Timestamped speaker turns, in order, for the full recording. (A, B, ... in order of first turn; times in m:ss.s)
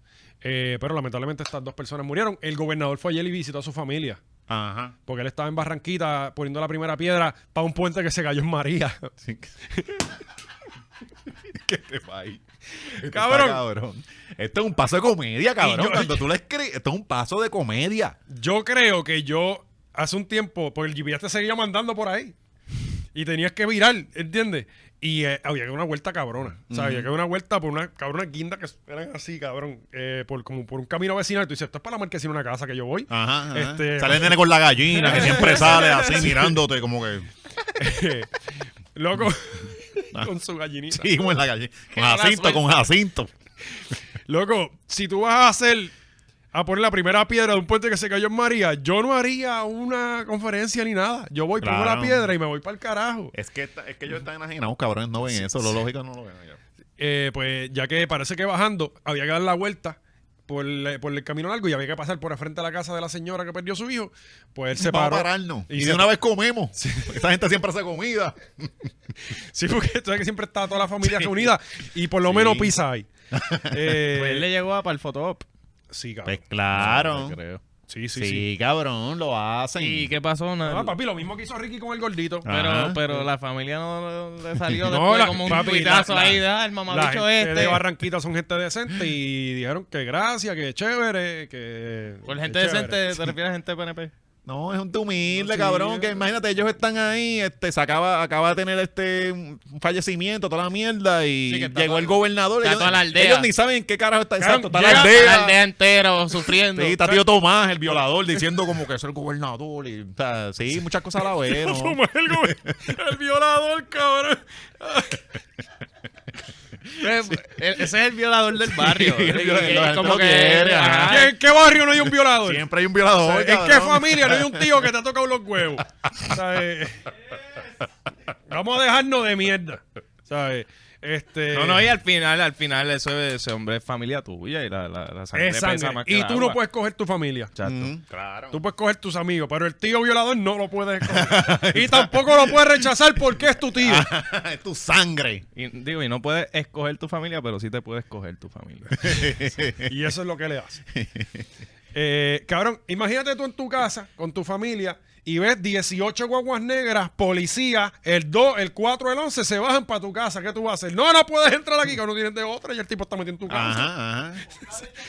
0:00.4-0:04.2 A
0:04.5-0:04.9 B
0:05.1-0:09.1 A
0:09.2-0:10.0 B
0:09.7-0:10.0 A
0:11.5-0:18.2 B
0:13.0-0:13.6 A
0:15.6-0:16.2 A
0:18.3-0:22.4 A
0:23.1-0:34.4 A
0:26.7-0:27.1 B
0:33.1-0:37.3 B
0:35.0-0:36.5 A
0:35.1-0:36.0 C
0:37.8-0:38.3 A
0:38.9-0:41.1 A
0:40.9-0:43.3 B
0:41.9-0:42.7 C
0:44.3-0:45.9 A
0:46.5-0:53.3 A
0:51.6-0:52.2 B
0:53.3-0:56.6 B
0:57.0-1:00.0 A
1:00.5-1:06.1 A
1:04.7-1:08.9 B
1:06.8-1:07.2 A
1:09.3-1:13.1 A
1:11.0-1:11.4 B
1:12.2-1:12.7 B
1:13.3-1:13.9 B
1:13.7-1:14.4 A
1:14.1-1:15.4 C
1:15.9-1:16.4 A
1:16.2-1:17.4 B
1:16.7-1:17.6 C
1:17.9-1:18.4 A
1:18.1-1:20.1 B
1:19.8-1:20.9 C
1:20.6-1:22.5 A
1:22.4-1:23.0 B
1:22.5-1:27.8 C
1:24.8-1:33.2 A
1:32.3-1:34.1 C
1:34.4-1:45.6 B
1:35.4-1:36.2 A
1:41.5-1:43.5 C
1:44.4-1:45.3 A
1:44.7-1:47.2 C
1:46.7-1:52.8 B
1:51.4-1:55.2 A
1:57.0-2:01.3 C
1:57.0-1:57.4 B
1:58.7-2:01.3 B
2:01.1-2:02.6 A
2:02.4-2:04.7 B
2:03.2-2:07.1 A
2:08.5-2:11.8 A
2:11.5-2:16.6 C
2:15.3-2:17.5 A
2:17.6-2:17.9 C
2:17.6-2:18.6 B
2:18.5-2:24.1 A
2:21.0-2:22.7 B
2:23.7-2:25.4 B
2:25.5-2:29.3 C
2:29.0-2:29.9 B
2:29.8-2:30.8 A
2:30.9-2:31.4 B
2:31.9-2:43.9 A
2:43.5-2:44.4 B